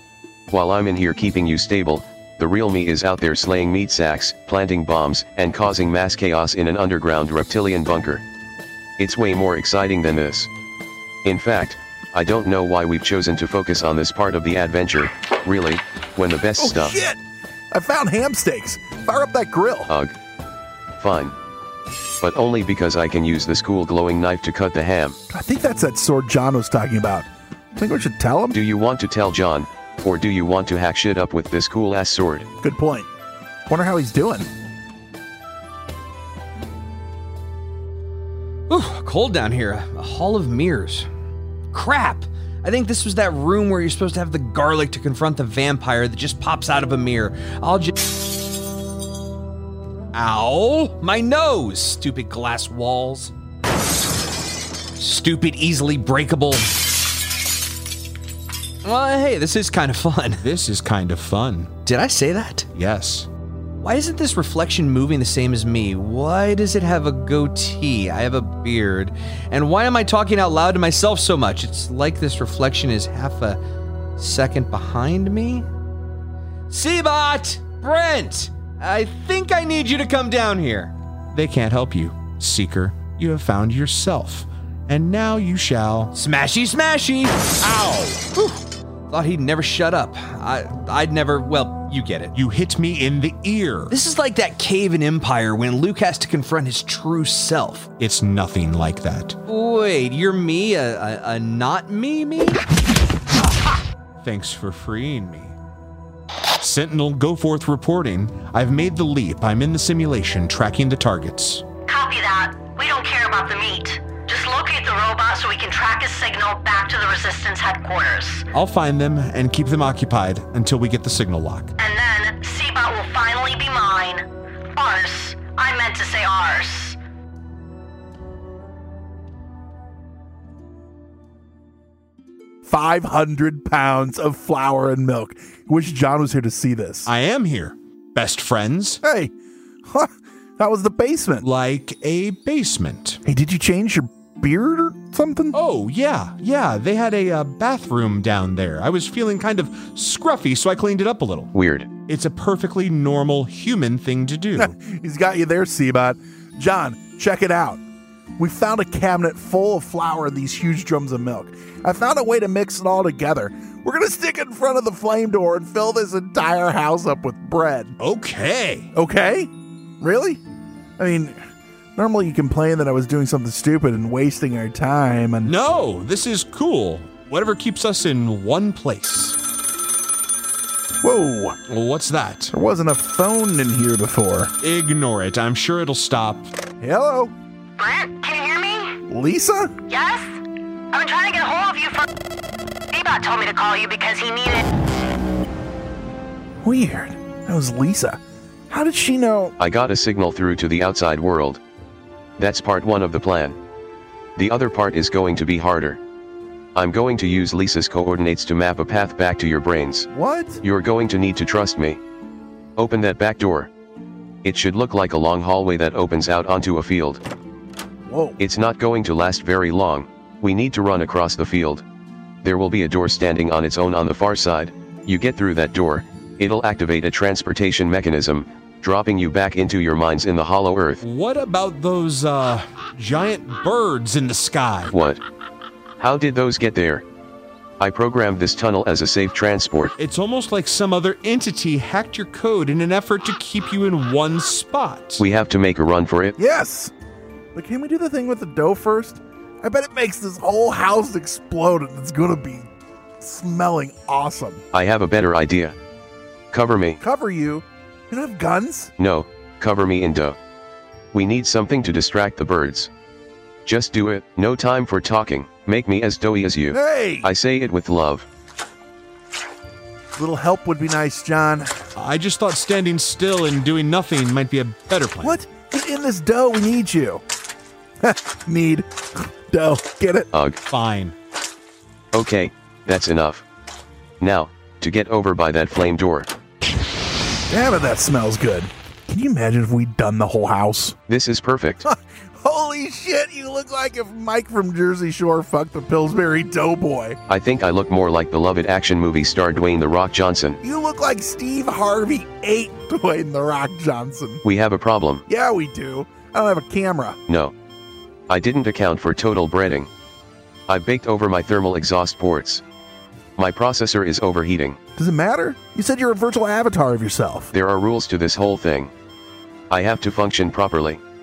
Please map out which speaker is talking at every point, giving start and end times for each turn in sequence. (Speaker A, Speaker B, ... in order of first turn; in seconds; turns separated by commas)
Speaker A: 0.5-8.2, Speaker A: 9.0-10.5, Speaker A: 11.2-16.9, Speaker B: 16.6-19.9, Speaker A: 19.9-20.1, Speaker A: 21.0-21.4, Speaker A: 22.2-25.2, Speaker B: 25.3-28.6, Speaker A: 28.5-32.5, Speaker B: 32.6-33.1, Speaker B: 33.7-34.5, Speaker C: 38.7-41.1, Speaker C: 41.7-47.9, Speaker C: 50.1-53.3, Speaker C: 55.0-56.7, Speaker C: 58.8-60.4, Speaker D: 60.4-61.7, Speaker C: 61.9-62.7, Speaker D: 62.7-63.3, Speaker C: 63.8-73.6, Speaker C: 74.2-75.7, Speaker C: 76.7-80.9, Speaker D: 81.3-86.1, Speaker C: 86.1-87.5, Speaker D: 87.6-88.3, Speaker C: 88.3-92.3, Speaker D: 92.3-93.9, Speaker C: 93.9-97.9, Speaker D: 98.0-99.3, Speaker C: 99.5-102.6, Speaker D: 104.2-105.5, Speaker D: 106.6-111.7, Speaker E: 111.8-118.4, Speaker D: 118.5-121.7, Speaker E: 121.8-124.2, Speaker E: 124.8-127.0, Speaker B: 132.6-137.1, Speaker D: 137.1-139.0, Speaker B: 139.0-139.3, Speaker B: 139.8-141.4, Speaker D: 141.4-143.2, Speaker B: 143.2-145.5, Speaker D: 145.5-154.7, Speaker A: 151.5-151.9, Speaker B: 154.6-157.8, Speaker B: 158.4-167.9, Speaker D: 168.0-168.9, Speaker B: 168.9-169.5, Speaker B: 170.0-170.4, Speaker B: 171.0-171.4, Speaker B: 171.9-175.5, Speaker D: 175.4-179.4, Speaker B: 181.0-181.6, Speaker D: 181.7-182.5, Speaker B: 182.5-184.5, Speaker D: 184.6-186.5, Speaker B: 186.8-187.3, Speaker E: 187.8-188.9, Speaker B: 189.1-189.7, Speaker E: 189.9-190.3, Speaker E: 190.9-192.0, Speaker E: 192.9-194.7, Speaker B: 196.6-199.5, Speaker A: 199.6-201.6, Speaker A: 202.4-203.6, Speaker A: 204.4-206.0, Speaker A: 206.7-210.1, Speaker B: 210.1-210.6, Speaker A: 210.6-212.0, Speaker A: 212.8-213.7, Speaker A: 214.4-217.2, Speaker B: 218.1-218.4, Speaker A: 218.4-221.8, Speaker A: 222.4-231.0, Speaker D: 231.0-234.9, Speaker A: 234.9-235.2, Speaker A: 236.0-237.0, Speaker A: 237.8-239.9, Speaker D: 240.0-245.2, Speaker A: 245.2-246.3, Speaker B: 246.4-246.9, Speaker B: 247.5-252.7, Speaker B: 253.2-254.6, Speaker A: 254.7-255.8, Speaker A: 256.5-257.0, Speaker B: 257.0-258.9, Speaker A: 259.0-260.4, Speaker A: 261.1-262.9, Speaker A: 263.6-268.2, Speaker B: 266.7-267.3, Speaker B: 270.1-271.8, Speaker D: 271.9-275.4, Speaker B: 275.2-277.2, Speaker B: 278.0-280.3, Speaker A: 280.3-280.6, Speaker D: 280.7-281.1, Speaker A: 282.1-283.4, Speaker A: 284.2-286.3, Speaker B: 287.5-291.0, Speaker A: 291.1-291.9, Speaker B: 291.8-297.2, Speaker A: 297.3-300.6, Speaker B: 300.6-304.4, Speaker A: 304.4-305.2, Speaker B: 305.3-307.2, Speaker A: 307.3-307.5, Speaker A: 308.3-309.9, Speaker A: 310.7-312.6, Speaker A: 313.4-314.8, Speaker B: 314.9-317.5, Speaker A: 317.5-318.9, Speaker A: 319.7-321.0